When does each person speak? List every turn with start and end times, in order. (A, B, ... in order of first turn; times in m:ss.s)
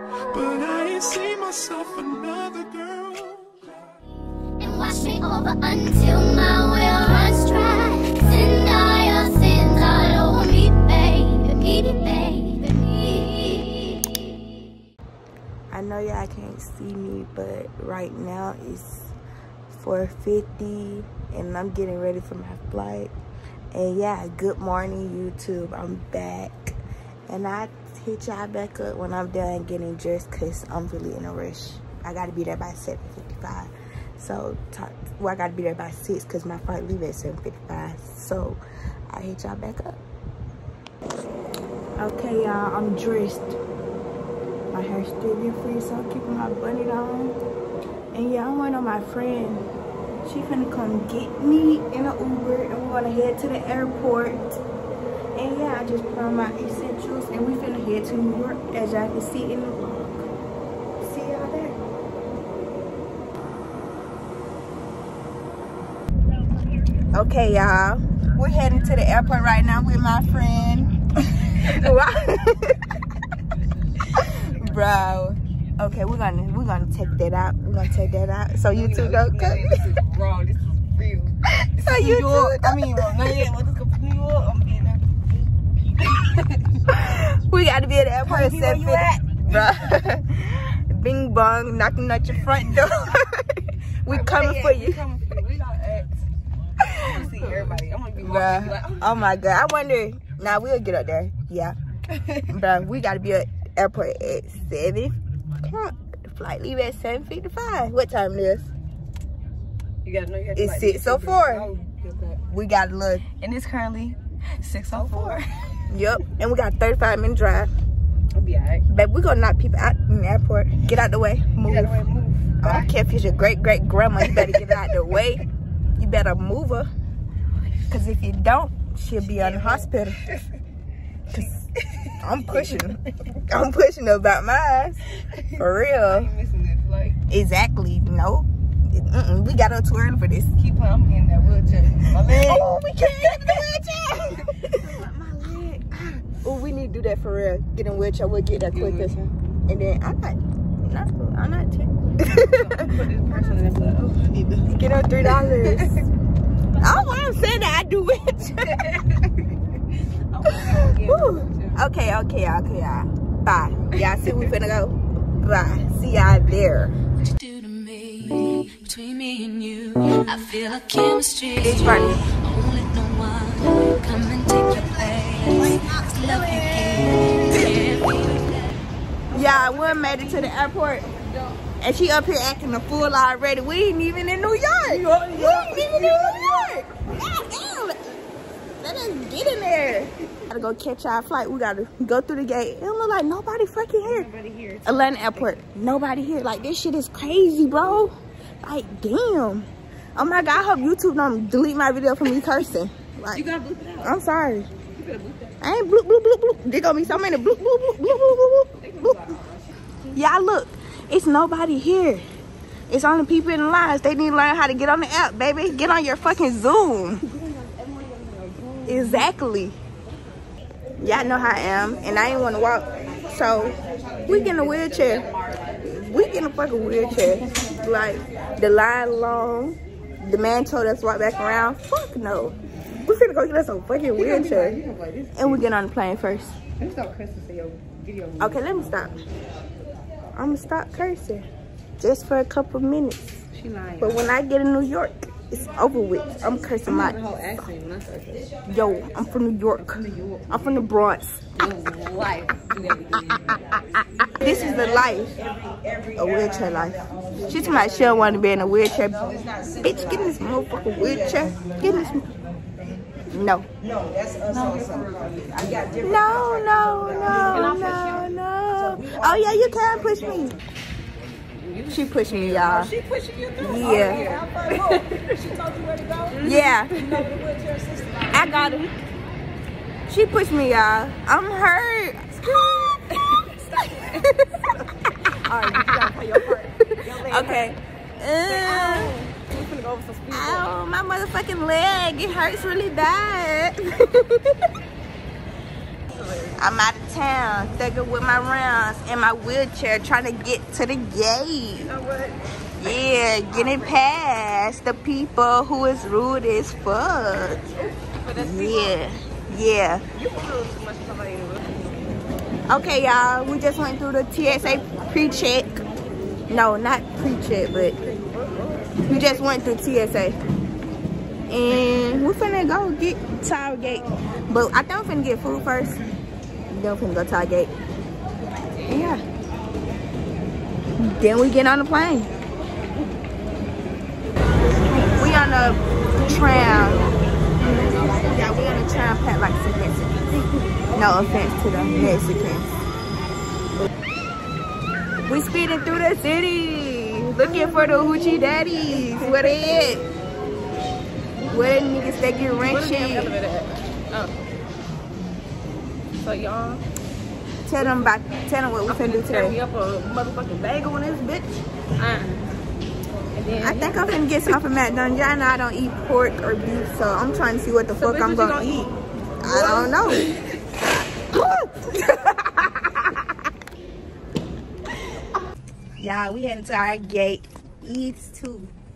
0:00.3-0:03.6 A
0:04.6-0:14.1 B
0:15.7-0:19.1 C
0:19.7-0:23.1 C
0:23.7-0:26.8 C
0:27.3-0:40.0 C
0:42.0-0:43.6 C
0:44.7-0:47.4 C
0:48.1-0:49.7 C
0:50.2-0:54.6 C
0:55.3-1:00.3 C
1:01.0-1:01.8 C
1:07.1-1:12.8 C
1:14.2-1:19.8 C
1:18.7-1:25.0 D
1:21.8-1:23.5 C
1:26.0-1:26.6 D
1:26.9-1:35.0 C
1:28.2-1:29.7 D
1:34.0-1:36.2 D
1:36.8-1:37.3 C
1:37.0-1:39.1 D
1:38.2-1:41.8 C
1:42.1-1:42.4 D
1:42.5-1:48.7 C
1:50.0-1:52.4 D
1:50.6-1:51.7 C
1:52.5-1:53.4 C
1:53.4-1:55.4 D
1:54.8-1:55.4 C
1:55.9-1:57.7 C
1:58.3-1:58.8 D
1:58.9-2:02.0 C
2:01.6-2:02.9 D
2:02.6-2:05.4 C
2:04.2-2:04.6 D
2:06.0-2:06.9 C
2:07.9-2:10.2 C
2:09.2-2:09.9 D
2:11.3-2:12.9 D
2:11.3-2:11.6 C
2:12.2-2:15.0 C
2:15.3-2:17.2 D
2:15.6-2:16.3 C
2:17.3-2:20.5 C
2:20.6-2:23.6 D
2:22.2-2:25.8 C
2:24.3-2:26.0 D
2:26.4-2:32.8 C
2:28.7-2:29.3 D
2:32.2-2:36.0 D
2:34.7-2:36.0 C
2:36.8-2:38.8 C
2:38.6-2:39.4 D
2:40.3-2:41.8 D
2:40.9-2:46.9 C
2:47.2-2:58.7 E
2:51.6-2:52.2 C
2:55.8-2:56.9 D
2:59.3-3:00.5 D
2:59.3-3:01.1 C
3:01.8-3:08.1 C
3:04.8-3:06.8 D
3:08.8-3:14.3 C
3:14.0-3:15.5 D
3:14.8-3:23.4 C
3:23.3-3:24.2 D
3:24.0-3:24.7 C
3:24.9-3:25.6 D
3:25.6-3:29.2 C
3:28.8-3:29.5 D
3:30.1-3:32.2 C
3:32.9-3:37.2 C
3:37.5-3:39.2 D
3:38.8-3:39.8 C
3:41.0-3:45.2 C
3:43.6-3:45.7 D
3:45.8-3:54.8 C
3:54.1-3:55.6 D
3:55.3-3:56.6 C
3:56.8-3:59.0 D
3:58.4-3:59.2 C
4:00.3-4:01.4 C
4:02.0-4:03.4 C
4:03.5-4:04.2 D
4:04.0-4:07.2 C
4:06.8-4:08.5 D
4:08.7-4:11.4 C
4:10.0-4:10.4 D
4:11.5-4:13.4 D
4:13.5-4:15.4 C
4:14.4-4:16.2 D
4:16.2-4:22.3 C
4:17.2-4:18.1 D
4:19.2-4:22.2 D
4:23.3-4:23.7 C
4:23.8-4:28.3 D
4:26.0-4:30.6 C
4:28.8-4:29.6 D
4:31.6-4:38.7 D
4:31.9-4:32.9 C
4:33.6-4:34.4 C
4:36.4-4:37.0 C
4:38.3-4:39.0 C
4:40.1-4:43.1 C
4:43.4-4:44.7 D
4:44.0-4:44.5 C
4:45.2-4:47.7 D
4:45.3-4:46.1 C
4:47.2-4:49.1 C
4:48.4-4:50.8 D
4:50.3-4:54.6 C
4:56.1-4:56.6 D
4:56.6-5:01.9 C
5:01.8-5:02.5 D
5:02.8-5:07.6 C
5:03.5-5:04.0 D
5:07.8-5:09.0 D
5:08.4-5:10.0 C
5:10.1-5:11.7 D
5:12.7-5:15.8 C
5:16.5-5:18.0 C
5:18.0-5:19.0 D
5:19.0-5:20.4 C
5:21.5-5:26.0 C
5:26.7-5:27.7 C
5:28.8-5:29.1 D
5:28.9-5:29.2 C
5:31.0-5:32.3 C
5:34.9-5:37.1 C
5:37.6-5:42.8 C
5:45.2-5:50.0 C
5:49.1-5:49.7 D
5:51.5-5:53.3 C
5:52.6-5:54.3 D
5:56.2-5:56.8 D
5:57.6-5:59.6 C
5:58.9-6:02.4 D
6:03.3-6:04.1 D
6:03.6-6:08.8 C
6:08.0-6:10.4 D
6:09.4-6:10.2 C
6:16.0-6:18.7 C